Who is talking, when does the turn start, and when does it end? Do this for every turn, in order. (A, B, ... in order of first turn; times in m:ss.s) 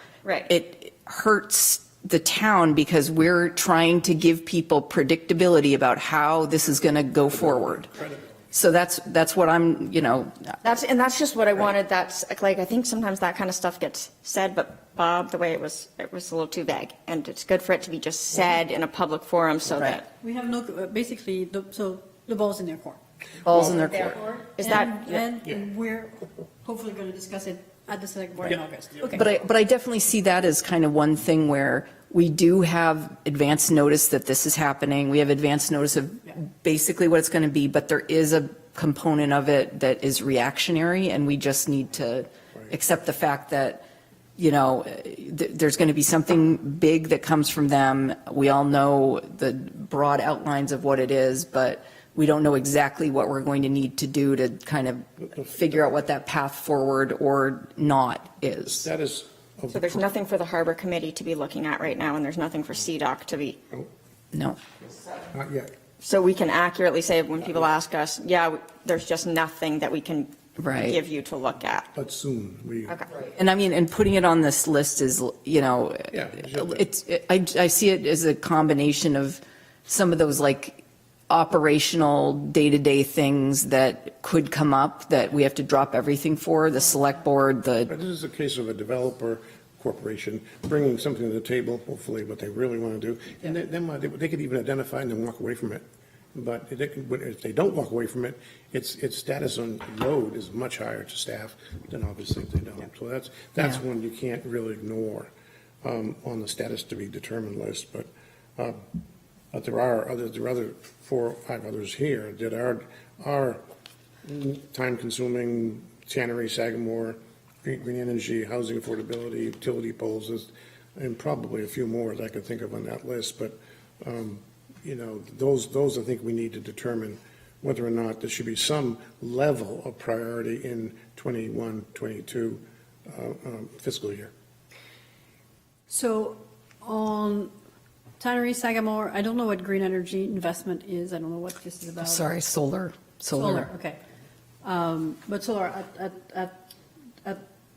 0:00.2-0:00.5 A
0:00.5-0:07.9 B
0:07.5-0:08.2 C
0:08.5-0:10.6 B
0:10.6-0:20.1 A
0:20.2-0:29.2 D
0:23.4-0:24.2 B
0:23.7-0:25.2 A
0:29.1-0:43.8 B
0:44.4-0:58.9 B
0:55.3-0:55.8 C
0:58.7-1:00.0 C
0:59.7-1:03.6 A
1:04.3-1:04.6 B
1:05.3-1:05.7 C
1:06.0-1:11.9 A
1:10.6-1:11.0 B
1:11.9-1:13.0 C
1:12.9-1:13.2 A
1:13.2-1:27.9 B
1:16.1-1:16.9 C
1:27.9-1:35.8 C
1:36.3-1:45.3 C
1:45.8-1:48.8 C
1:49.5-1:53.6 C
1:54.2-2:14.3 C
2:15.9-2:17.5 D
2:18.2-2:22.2 D
2:22.0-2:23.7 B
2:23.3-2:24.0 D
2:24.6-2:26.6 D